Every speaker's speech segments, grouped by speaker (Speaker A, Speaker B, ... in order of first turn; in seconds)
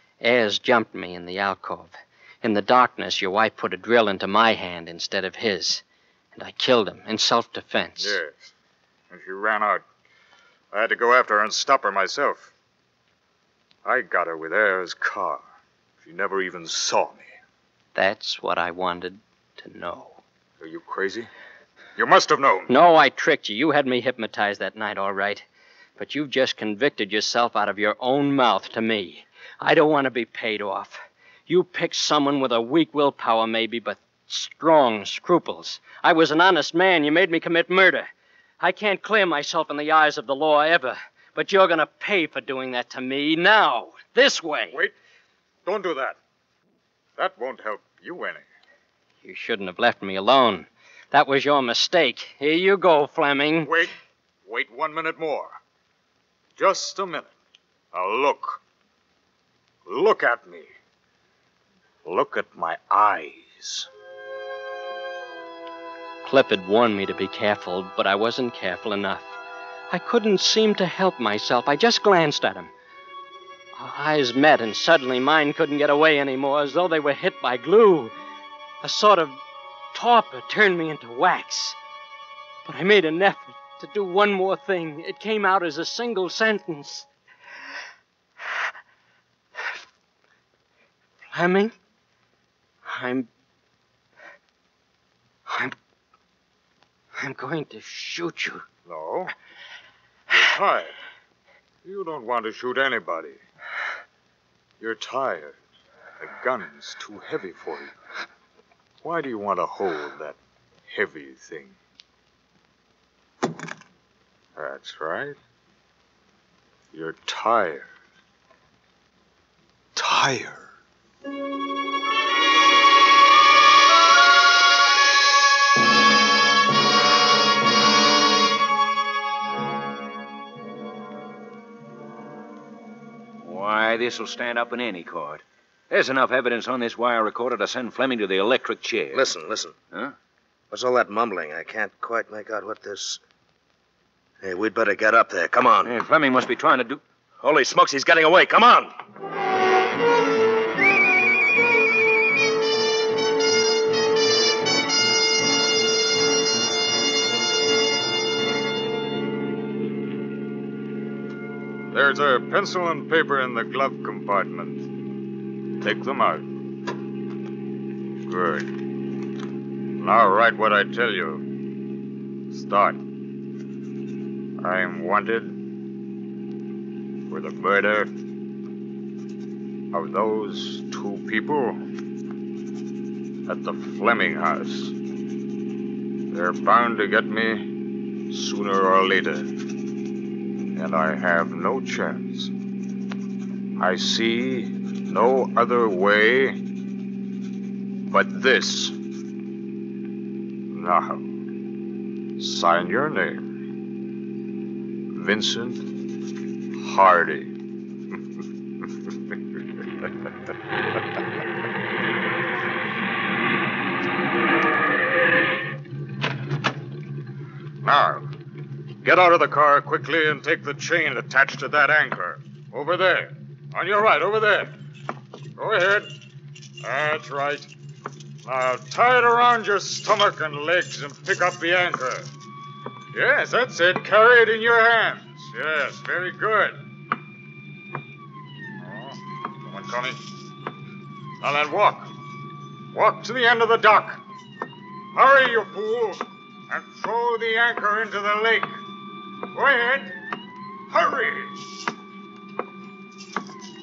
Speaker A: 0.2-5.8, 6.3-8.2, 17.9-20.2, 22.7-25.4, 26.0-38.1, 38.6-44.8, 49.2-53.7, 66.2-69.3, 69.9-72.7, 73.8-78.1, 78.8-79.4, 79.9-81.8, 82.6-87.1, 91.3-91.7, 92.8-93.3, 95.5-95.8, 97.2-98.7
Speaker B: 8.0-8.5, 9.1-9.8, 10.7-12.5, 13.8-15.4, 16.0-17.3, 20.6-21.3, 21.9-22.7, 45.6-46.2, 47.2-48.4, 53.6-53.9, 54.5-55.6, 56.6-57.3, 57.9-58.6, 59.9-60.7, 62.0-63.9, 98.8-99.3, 100.3-101.0, 101.8-103.4, 104.8-105.6, 106.2-107.9, 109.0-110.4, 110.9-111.8, 114.5-115.4, 116.9-117.9, 119.9-120.7, 161.9-164.8, 165.8-166.4, 168.2-168.7, 170.0-171.4, 172.5-173.0, 174.6-175.5, 177.3-178.1, 179.9-181.8, 183.4-184.9, 186.3-187.7, 188.3-189.5, 190.7-192.5, 193.8-196.6, 198.1-198.9, 200.7-201.2, 202.4-203.4, 205.1-205.8, 206.8-207.5, 217.8-218.3, 219.0-224.8, 225.6-226.1, 226.8-227.7, 228.4-232.3, 233.1-236.8, 238.8-240.2, 241.4-242.1, 242.9-244.2, 245.1-248.8, 249.5-250.2, 250.9-251.6
Speaker C: 133.4-139.2, 145.8-147.0
Speaker D: 139.1-139.7, 140.7-143.2, 144.4-145.9, 147.4-148.9